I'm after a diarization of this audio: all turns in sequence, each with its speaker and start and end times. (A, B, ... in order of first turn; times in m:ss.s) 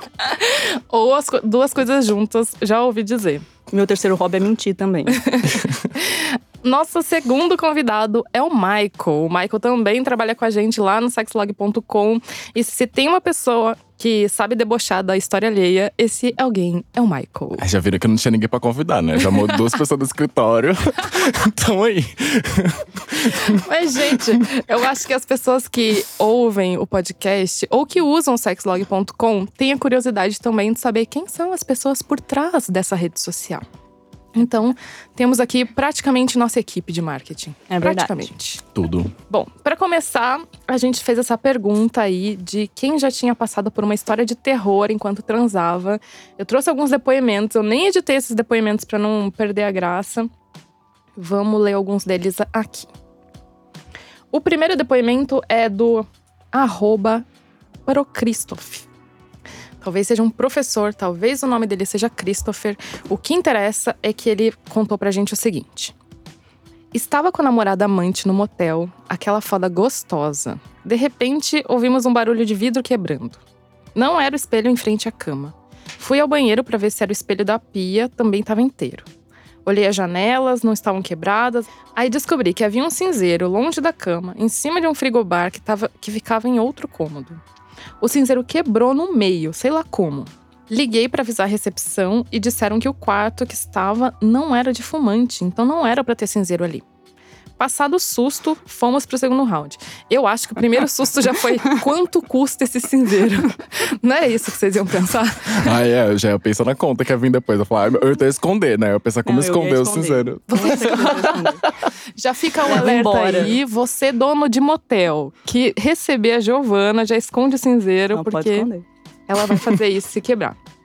0:00.2-0:03.5 A
0:03.7-0:05.2 B
0:05.2-0:17.6 A
0:17.6-0:23.6 C
0:23.5-0:33.6 A
0:34.4-0:38.6 A
0:37.7-0:38.3 B
0:38.7-0:39.1 C
0:39.3-0:50.3 A
0:51.2-0:52.9 A
0:54.3-0:57.3 A
0:57.9-0:58.9 A
0:59.8-1:05.9 A
1:06.9-1:13.4 A
1:13.9-1:19.1 A
1:19.6-1:27.4 A
1:28.0-1:36.8 A
1:37.6-1:45.8 A
1:45.5-1:51.6 C
1:49.2-1:51.7 B
1:50.5-1:51.5 A
1:52.2-1:58.7 A
1:52.6-1:53.6 B
1:58.1-1:58.8 B
1:59.3-2:00.6 A